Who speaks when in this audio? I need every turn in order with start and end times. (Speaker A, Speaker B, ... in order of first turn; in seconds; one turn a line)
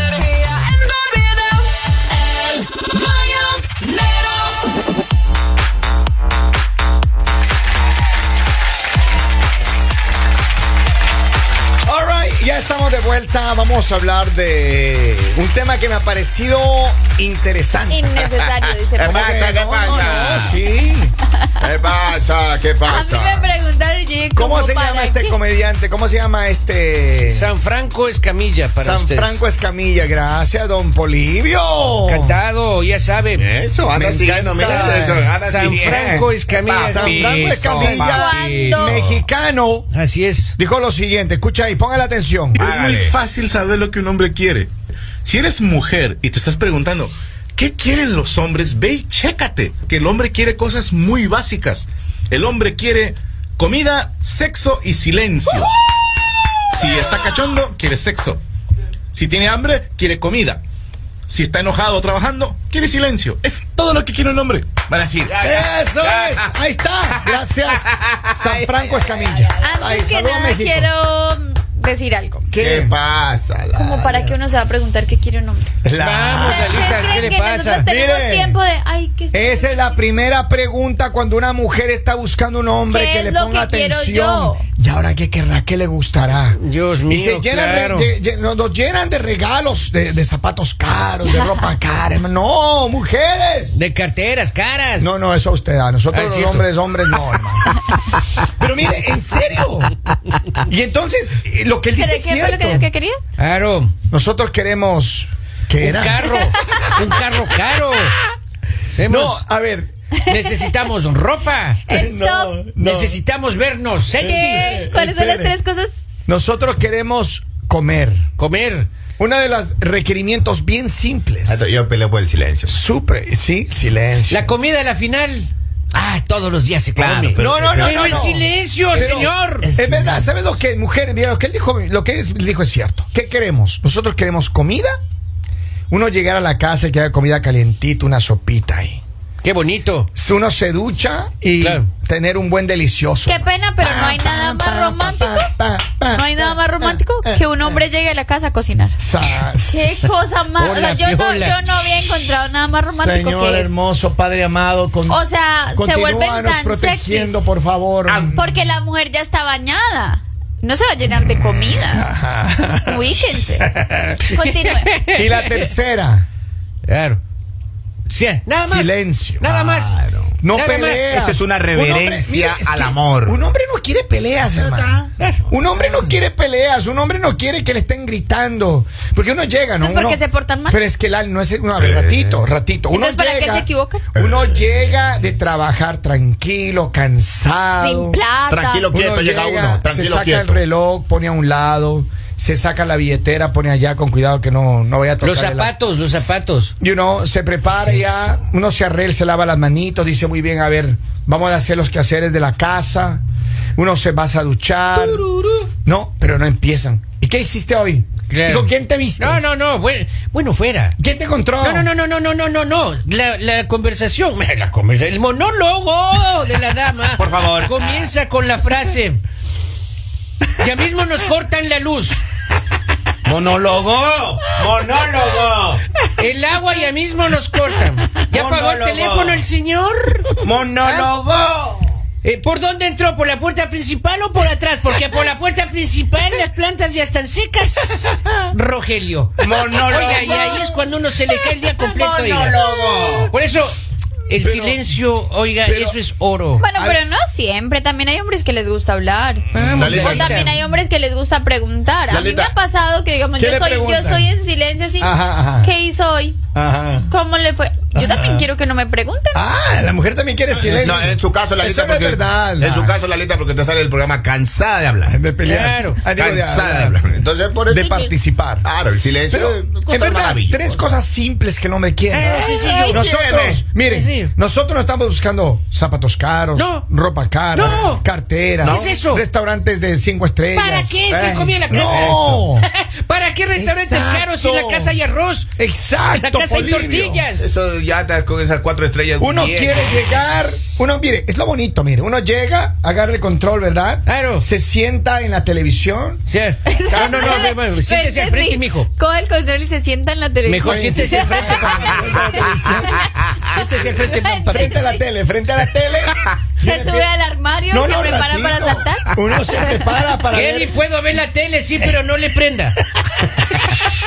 Speaker A: 11.8-18.3
Speaker B: 17.9-19.3
Speaker C: 18.9-20.6
Speaker A: 19.0-21.1
Speaker B: 20.1-20.5
Speaker C: 21.6-23.5
Speaker B: 22.8-25.4
Speaker A: 24.3-27.5
Speaker D: 27.2-29.4
Speaker A: 28.8-32.4
Speaker D: 32.0-33.5
Speaker C: 33.4-39.2
Speaker A: 33.9-35.3
Speaker D: 34.6-37.7
Speaker A: 36.7-39.9
Speaker B: 37.7-39.0
Speaker D: 39.9-40.5
Speaker A: 40.6-42.8
Speaker C: 42.5-43.2
Speaker E: 42.6-44.7
Speaker E: 45.2-55.7
Speaker E: 56.7-58.4
Speaker E: 59.1-60.6
Speaker E: 61.3-65.3
Speaker C: 64.8-66.5
Speaker A: 65.4-70.9
Speaker C: 67.2-69.7
Speaker B: 69.6-72.5
Speaker A: 72.5-73.0
Speaker C: 72.5-74.3
Speaker B: 73.7-75.7
Speaker A: 75.8-77.2
Speaker D: 76.0-77.8
Speaker B: 76.3-80.0
Speaker A: 77.8-78.6
Speaker A: 79.3-93.8
Speaker B: 82.9-84.6
Speaker D: 86.5-88.1
Speaker D: 93.7-95.2
Speaker A: 95.0-97.8
Speaker D: 96.1-96.6
Speaker A: 98.5-99.9
Speaker A: 100.6-102.9
Speaker B: 101.9-103.2
Speaker D: 103.4-103.9
Speaker A: 104.1-106.7
Speaker D: 105.8-108.2
Speaker B: 106.6-107.0
Speaker D: 109.0-109.4
Speaker A: 109.0-109.9
Speaker B: 110.2-110.7
Speaker D: 110.3-111.8
Speaker B: 111.9-112.6
Speaker A: 111.9-113.2
Speaker D: 112.7-114.9
Speaker A: 114.2-115.5
Speaker B: 114.2-115.9
Speaker A: 116.3-118.2
Speaker D: 118.4-118.9
Speaker A: 119.2-121.6
Speaker C: 121.5-122.8
Speaker A: 122.7-124.5
Speaker D: 124.3-129.7
Speaker C: 127.0-128.4
Speaker A: 127.3-134.9
Speaker C: 129.1-130.3
Speaker A: 135.9-139.0
Speaker D: 139.4-140.1
Speaker A: 140.1-147.4
Speaker D: 141.6-141.9
Speaker B: 143.2-145.5
Speaker B: 146.1-149.0
Speaker A: 149.0-149.9
Speaker B: 149.7-153.8
Speaker D: 150.6-151.6
Speaker A: 152.9-158.4
Speaker B: 155.1-157.5
Speaker C: 158.0-158.4
Speaker B: 158.3-162.1
Speaker A: 161.4-163.1
Speaker B: 162.8-163.7
Speaker A: 163.7-164.2
Speaker B: 164.3-165.0
Speaker D: 164.4-165.5
Speaker A: 165.1-166.3
Speaker D: 166.8-167.2
Speaker D: 168.1-170.0
Speaker A: 168.6-169.5
Speaker C: 169.4-170.4
Speaker A: 170.4-175.0
Speaker D: 170.5-171.2
Speaker C: 171.1-173.5
Speaker C: 174.5-176.2
Speaker A: 175.5-188.2
Speaker B: 179.8-180.8
Speaker C: 181.8-182.4
Speaker B: 182.9-184.1
Speaker C: 184.1-185.3
Speaker B: 187.8-189.0
Speaker C: 188.5-190.6
Speaker A: 188.9-195.7
Speaker D: 195.2-196.7
Speaker A: 196.8-203.2
Speaker A: 203.8-205.3
Speaker A: 205.8-209.4
Speaker D: 208.3-210.9
Speaker A: 211.0-211.9
Speaker D: 211.6-219.2
Speaker C: 217.2-218.1
Speaker D: 220.6-222.2
Speaker C: 223.2-225.8
Speaker D: 226.2-230.5
Speaker C: 228.2-229.4
Speaker C: 230.4-231.9
Speaker D: 232.2-242.6
Speaker C: 239.4-240.7
Speaker C: 241.6-243.3
Speaker B: 242.6-243.3
Speaker D: 243.3-243.8
Speaker D: 244.3-246.6
Speaker A: 244.3-244.8
Speaker A: 245.6-245.9
Speaker B: 246.6-256.4
Speaker A: 246.7-247.0
Speaker D: 249.5-250.5
Speaker C: 249.7-250.6
Speaker C: 252.1-252.5
Speaker A: 253.4-254.3
Speaker A: 255.0-255.7
Speaker A: 256.5-257.1
Speaker B: 257.1-259.4
Speaker A: 257.9-258.5
Speaker A: 259.3-263.0
Speaker C: 260.5-265.2
Speaker A: 265.1-267.0
Speaker D: 265.4-266.0
Speaker C: 266.1-268.1
Speaker A: 267.6-268.6
Speaker C: 268.6-270.9
Speaker A: 269.3-281.0
Speaker D: 272.1-273.0
Speaker C: 272.2-273.6
Speaker D: 273.9-274.3
Speaker D: 276.5-276.9
Speaker D: 277.5-278.0
Speaker C: 277.6-277.8
Speaker C: 278.6-278.9
Speaker D: 278.6-279.2
Speaker D: 280.5-285.5
Speaker C: 281.1-282.4
Speaker A: 281.7-282.7
Speaker A: 283.6-284.9
Speaker A: 285.6-287.2
Speaker D: 286.2-287.4
Speaker C: 287.4-290.5
Speaker A: 289.2-296.2
Speaker D: 294.1-294.4
Speaker D: 296.3-298.9
Speaker B: 296.7-305.0
Speaker A: 296.9-297.5
Speaker D: 300.4-301.8
Speaker A: 300.6-303.1
Speaker D: 303.5-304.8
Speaker A: 304.5-307.1
Speaker B: 306.6-309.9
Speaker A: 307.7-310.7
Speaker D: 310.3-312.8